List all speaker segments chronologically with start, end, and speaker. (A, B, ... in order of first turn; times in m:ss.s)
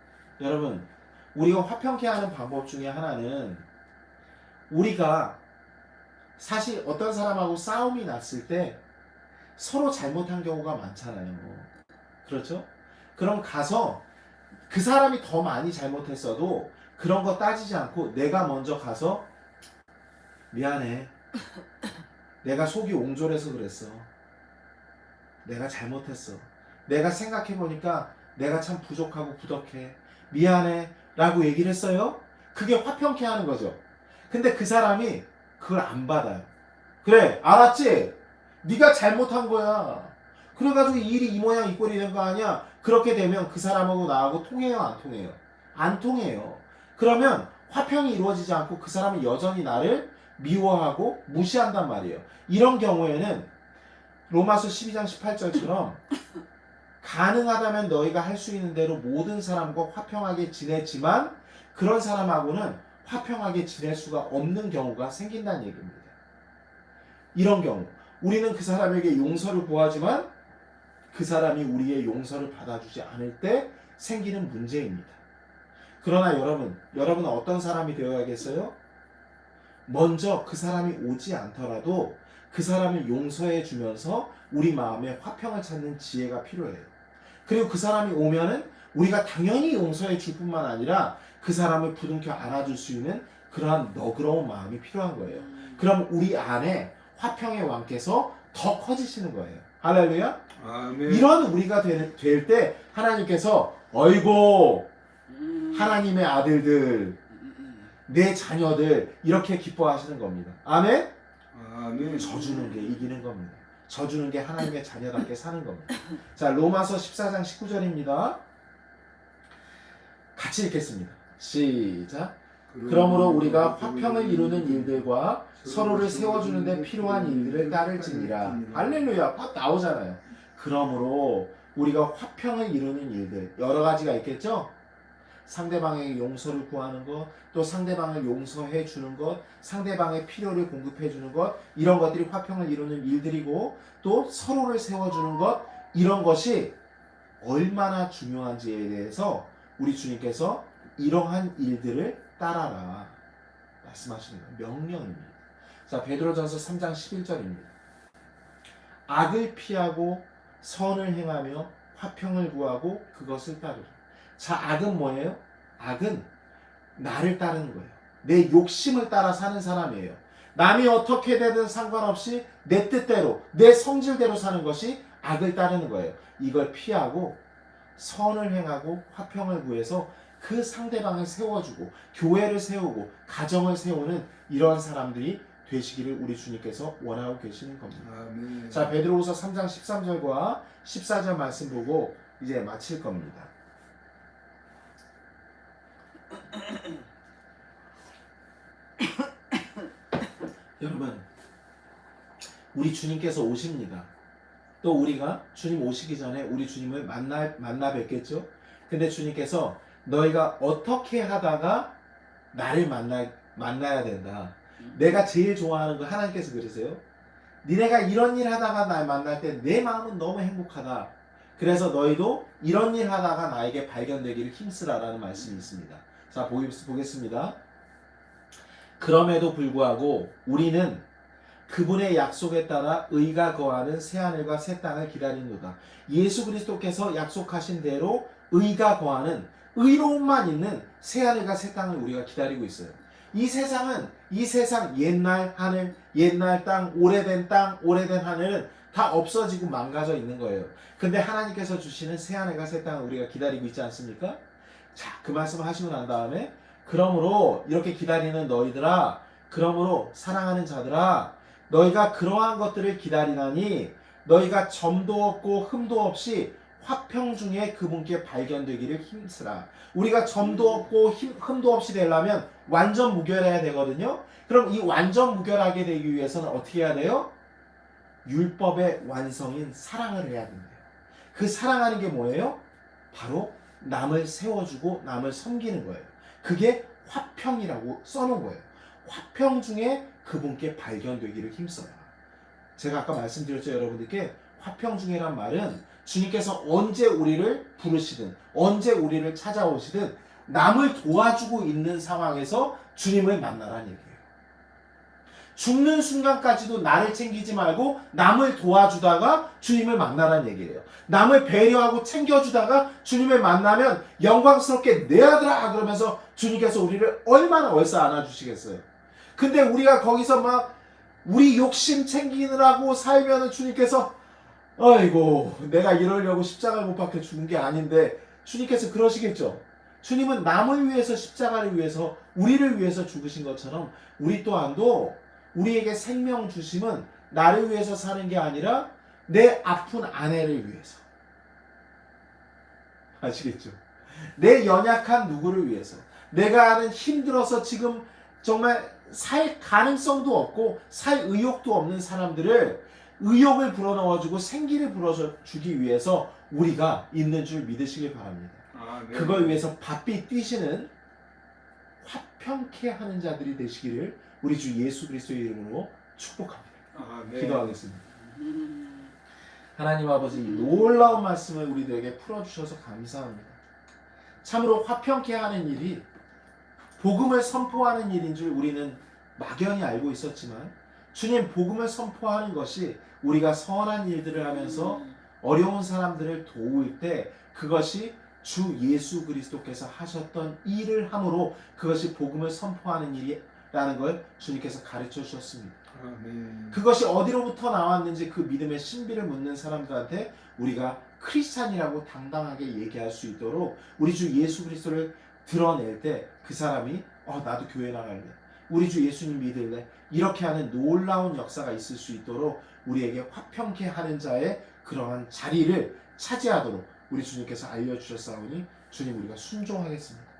0:00.4-0:03.6 A
0:04.7-0:05.4 A
0:06.4-0:08.8 A
0:09.6-0:11.7 A
0:12.2-0:14.0 A
0:14.7-0:19.3 A
0:20.5-0:21.1 A
0:22.4-0:24.1 A
0:25.4-0:36.5 A
0:37.0-0:53.5 A
0:54.3-0:56.0 A
0:57.0-1:06.1 A
1:07.3-1:10.3 A
1:11.1-1:15.2 A
1:16.0-1:18.7 A
1:19.8-1:26.9 A
1:27.4-1:40.4 A
1:35.2-1:35.8 B
1:40.5-1:41.3 C
1:41.0-1:44.9 A
1:45.3-1:46.0 B
1:45.7-1:47.2 A
1:47.4-1:47.8 B
1:48.1-1:51.1 A
1:51.5-1:52.8 C
1:52.1-1:58.4 A
2:00.3-2:14.7 A
2:02.7-2:09.2 C
2:15.4-2:26.8 A
2:27.4-2:33.2 A
2:33.8-2:37.7 A
2:39.1-2:46.3 A
2:47.0-2:57.4 A
2:58.0-3:08.1 A
3:08.0-3:09.0 C
3:08.7-3:13.5 A
3:20.8-3:21.3 A
3:22.7-3:24.1 A
3:24.8-3:31.9 A
3:32.5-3:37.0 A
3:34.8-3:35.2 B
3:37.6-3:47.6 A
3:49.0-3:51.0 A
3:51.7-4:14.4 A
4:14.9-4:37.3 A
4:38.2-4:42.6 A
4:43.1-4:52.1 A
4:52.8-5:04.2 A
5:05.5-5:24.2 A
5:24.8-5:41.0 A
5:43.2-6:00.9 A
5:58.7-5:59.7 C
6:02.0-6:06.8 A
6:06.9-6:07.8 C
6:07.3-6:08.0 A
6:08.2-6:09.1 B
6:09.8-6:13.6 A
6:10.3-6:10.8 B
6:14.4-6:16.1 A
6:17.0-6:35.8 A
6:24.9-6:25.1 B
6:35.9-6:36.8 C
6:36.7-7:00.3 A